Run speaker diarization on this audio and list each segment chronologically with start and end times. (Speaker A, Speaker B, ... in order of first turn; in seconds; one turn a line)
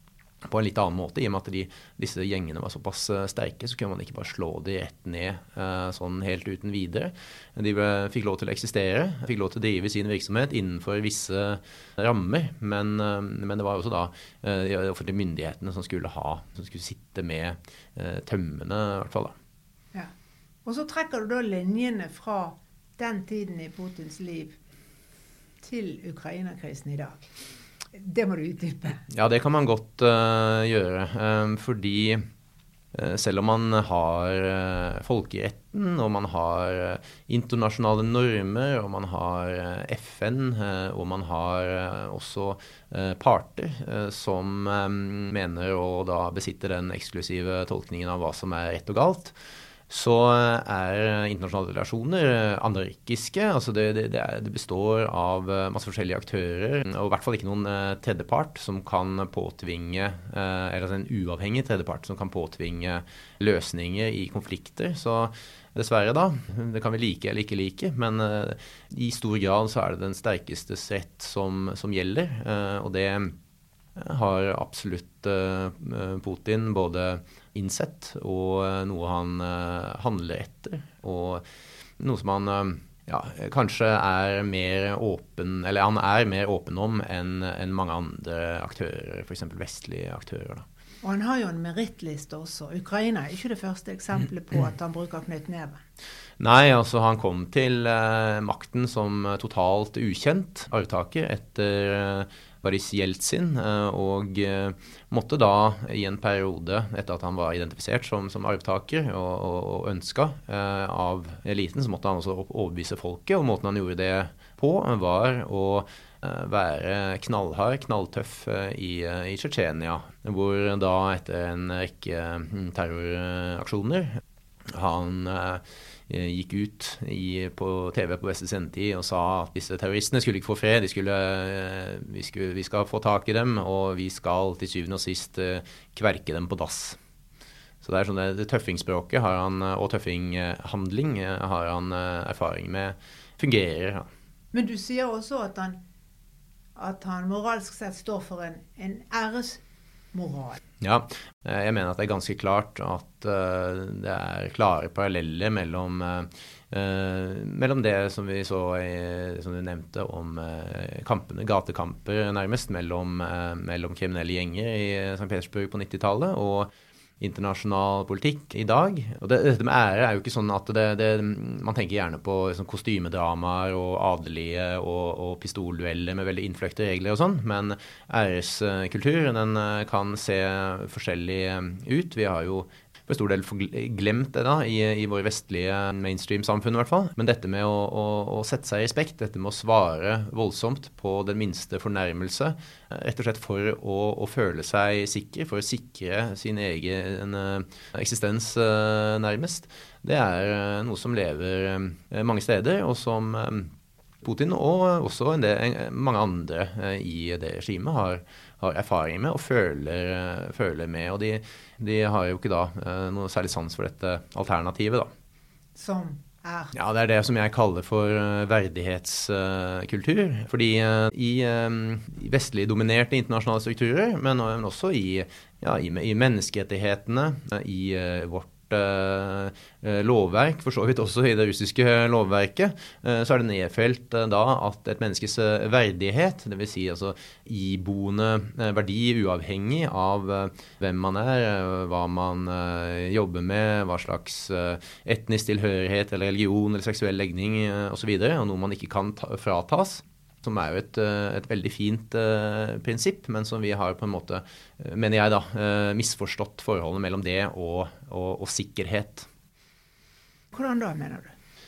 Speaker A: 0.5-19.3
Speaker B: 20.6-24.6
Speaker B: 25.6-27.3
Speaker B: 27.9-29.0
Speaker A: 29.1-32.2
Speaker A: 32.9-49.3
Speaker A: 49.9-73.3
Speaker A: 74.0-81.4
Speaker A: 82.0-90.6
Speaker B: 91.0-95.8
Speaker A: 96.4-124.2
Speaker A: 124.7-137.0
Speaker A: 137.8-144.1
Speaker B: 144.5-145.8
Speaker B: 146.8-149.6
Speaker B: 150.1-150.6
Speaker A: 150.8-166.7
Speaker A: 167.2-203.7
Speaker A: 204.2-215.1
Speaker B: 215.7-216.7
Speaker A: 216.7-259.3
Speaker B: 260.5-261.3